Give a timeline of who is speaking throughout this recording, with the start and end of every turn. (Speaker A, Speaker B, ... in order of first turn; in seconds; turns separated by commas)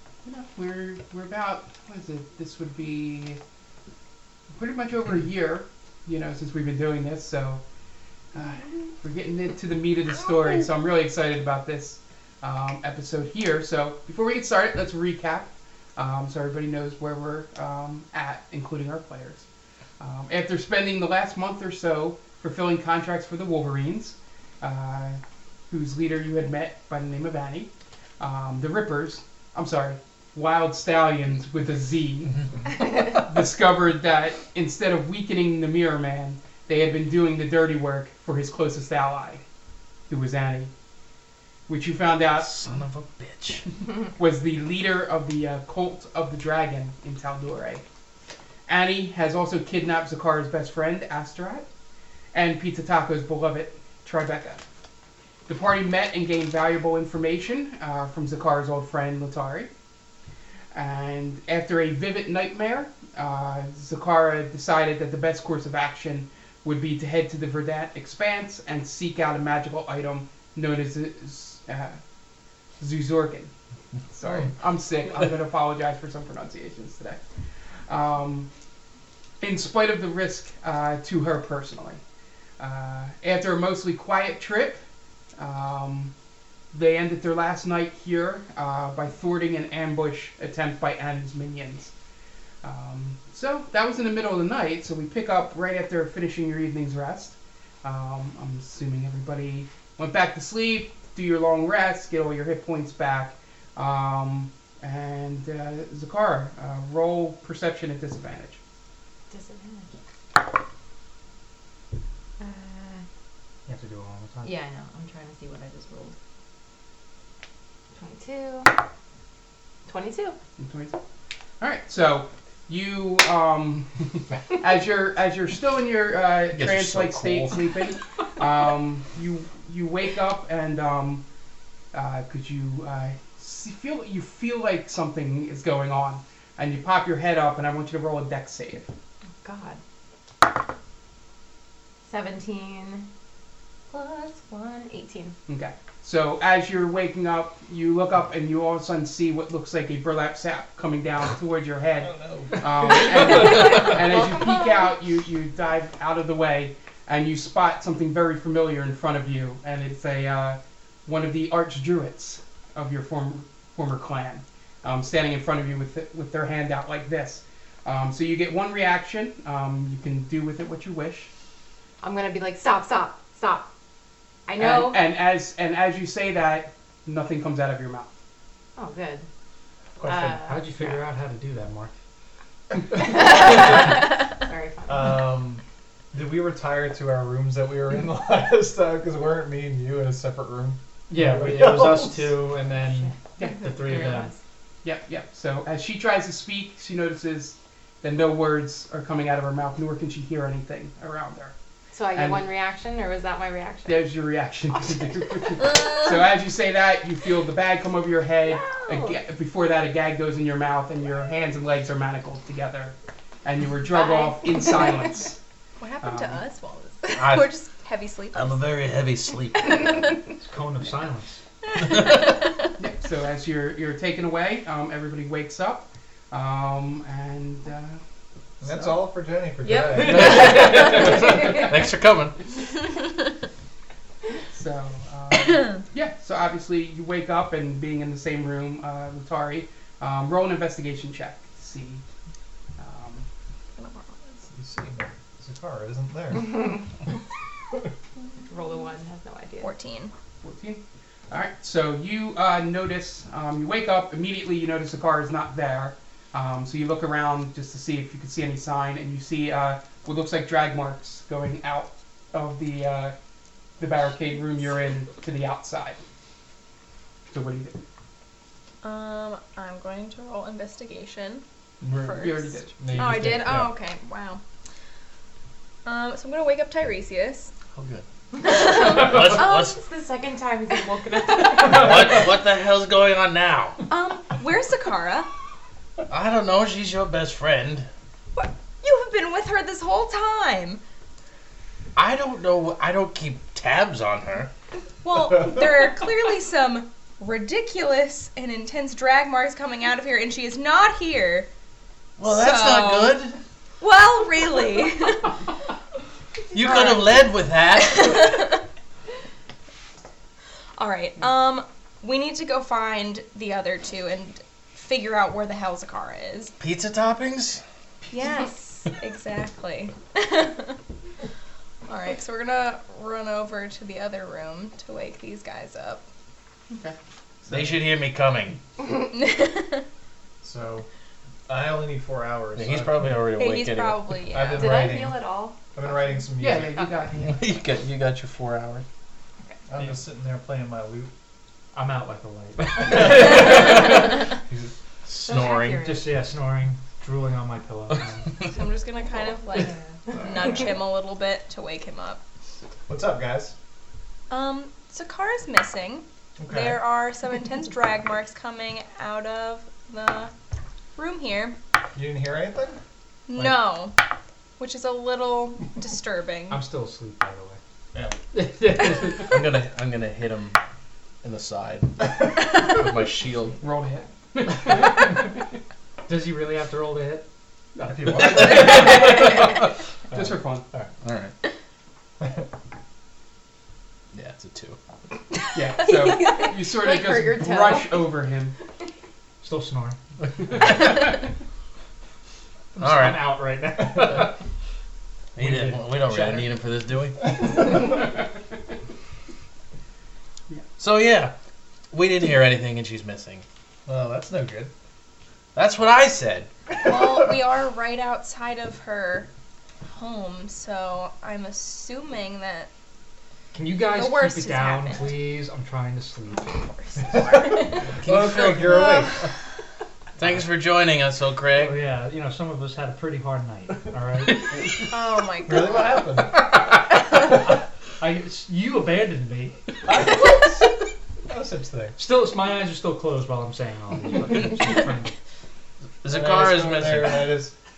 Speaker A: 0.2-3.4, Speaker A: 4.5-7.6, Speaker A: 8.3-19.4, Speaker A: 20.0-39.4, Speaker A: 40.1-40.7, Speaker A: 41.7-42.7, Speaker B: 42.3-43.6, Speaker A: 44.0-47.8, Speaker A: 48.7-51.7, Speaker A: 52.3-54.6, Speaker A: 55.5-59.7, Speaker A: 60.7-72.0, Speaker A: 72.8-73.5, Speaker A: 74.1-77.2, Speaker A: 77.9-78.5, Speaker A: 79.4-82.0, Speaker A: 82.6-84.8, Speaker A: 85.4-86.1, Speaker A: 86.7-91.9, Speaker A: 92.6-108.6, Speaker C: 109.3-109.9, Speaker C: 112.4-113.0, Speaker D: 113.7-114.5, Speaker C: 114.4-116.2, Speaker C: 118.0-118.8, Speaker C: 119.8-120.3, Speaker A: 120.6-121.0, Speaker A: 121.6-131.2, Speaker B: 126.5-127.6, Speaker A: 131.9-138.9, Speaker C: 139.4-139.8, Speaker C: 142.1-143.1, Speaker C: 143.9-145.3, Speaker A: 145.5-171.3, Speaker E: 152.0-152.9, Speaker C: 172.0-173.7, Speaker C: 174.5-175.0, Speaker A: 174.6-178.1, Speaker C: 178.8-179.2, Speaker E: 180.0-180.5, Speaker C: 180.0-180.9, Speaker D: 180.5-181.9, Speaker C: 182.9-185.2, Speaker E: 184.9-185.6, Speaker E: 186.1-192.5, Speaker D: 191.1-194.3, Speaker C: 192.8-194.4, Speaker A: 194.8-201.5, Speaker C: 201.9-204.0, Speaker A: 202.1-202.5, Speaker A: 203.8-215.4, Speaker C: 208.5-209.2, Speaker F: 213.9-214.9, Speaker F: 215.8-218.6, Speaker A: 216.0-216.4, Speaker B: 217.1-217.5, Speaker B: 218.3-220.0, Speaker F: 219.7-220.1, Speaker D: 220.4-221.4, Speaker B: 221.8-222.4, Speaker F: 221.8-222.7, Speaker A: 222.8-228.0, Speaker E: 228.6-230.6, Speaker A: 228.6-229.0, Speaker B: 229.9-232.3, Speaker C: 230.1-230.8, Speaker F: 230.7-231.0, Speaker A: 234.5-242.0, Speaker A: 242.8-243.3, Speaker F: 243.8-244.4, Speaker E: 244.5-246.7, Speaker C: 246.5-246.8, Speaker C: 248.5-249.7, Speaker F: 249.6-250.1, Speaker A: 250.4-263.1, Speaker A: 263.8-266.0, Speaker A: 267.3-267.8, Speaker F: 268.8-274.4, Speaker A: 271.9-273.0, Speaker E: 272.8-273.6, Speaker D: 272.8-273.6, Speaker F: 275.8-277.5, Speaker B: 277.7-278.0, Speaker C: 278.4-282.2, Speaker F: 278.4-279.8, Speaker B: 278.9-279.8, Speaker F: 281.3-281.7, Speaker B: 281.6-283.8, Speaker F: 283.9-285.3, Speaker B: 286.1-287.9, Speaker F: 288.3-290.8, Speaker B: 291.9-294.5, Speaker F: 295.0-301.5, Speaker B: 302.2-303.4, Speaker F: 302.2-303.2, Speaker F: 303.8-305.3, Speaker B: 306.5-308.4, Speaker F: 306.5-308.6, Speaker F: 310.8-316.5, Speaker B: 316.6-317.6, Speaker F: 318.1-320.8, Speaker F: 321.9-326.1, Speaker A: 326.7-326.9, Speaker B: 327.5-328.6, Speaker F: 328.9-329.8, Speaker E: 330.4-330.9, Speaker E: 331.5-333.1, Speaker B: 332.6-334.1, Speaker F: 333.3-334.9, Speaker E: 334.3-335.2, Speaker C: 334.6-335.6, Speaker E: 335.7-337.0, Speaker A: 336.4-337.3, Speaker B: 337.1-338.8, Speaker E: 339.7-341.1, Speaker D: 341.7-343.9, Speaker B: 342.8-344.0, Speaker E: 342.9-344.7, Speaker B: 345.0-345.9, Speaker C: 345.2-346.1, Speaker D: 345.8-348.5, Speaker F: 348.5-352.2, Speaker E: 352.9-353.5, Speaker F: 354.3-360.3, Speaker E: 356.4-356.8, Speaker F: 360.9-361.6, Speaker E: 361.9-362.8, Speaker F: 363.3-364.0, Speaker F: 364.6-366.6, Speaker D: 366.5-367.6, Speaker D: 368.3-369.3, Speaker B: 369.2-370.6, Speaker B: 371.2-373.6, Speaker A: 373.6-375.2, Speaker D: 376.1-377.3, Speaker A: 377.8-379.4, Speaker E: 377.9-378.9, Speaker D: 378.0-378.9, Speaker B: 378.3-379.4, Speaker A: 380.1-380.6, Speaker B: 380.7-381.3, Speaker B: 384.1-384.8, Speaker A: 385.5-388.6, Speaker F: 386.0-386.5, Speaker C: 386.1-388.1, Speaker D: 389.4-390.0, Speaker B: 390.5-390.9, Speaker D: 392.8-394.4, Speaker B: 392.8-393.4, Speaker B: 395.4-397.9, Speaker D: 395.4-396.2, Speaker B: 400.8-401.3, Speaker B: 401.9-403.4, Speaker E: 403.9-404.7, Speaker B: 405.5-406.5, Speaker F: 406.7-409.3, Speaker F: 409.9-412.7, Speaker D: 413.5-416.6, Speaker F: 413.9-415.2, Speaker F: 416.4-418.0, Speaker E: 417.2-419.2, Speaker B: 418.0-418.9, Speaker F: 418.6-419.2, Speaker B: 420.2-421.8, Speaker D: 421.5-424.5, Speaker F: 424.7-426.0, Speaker E: 425.4-426.3, Speaker D: 428.0-429.6, Speaker E: 429.9-430.7, Speaker E: 431.2-432.0, Speaker D: 432.0-435.1, Speaker B: 436.0-437.3, Speaker E: 436.1-437.5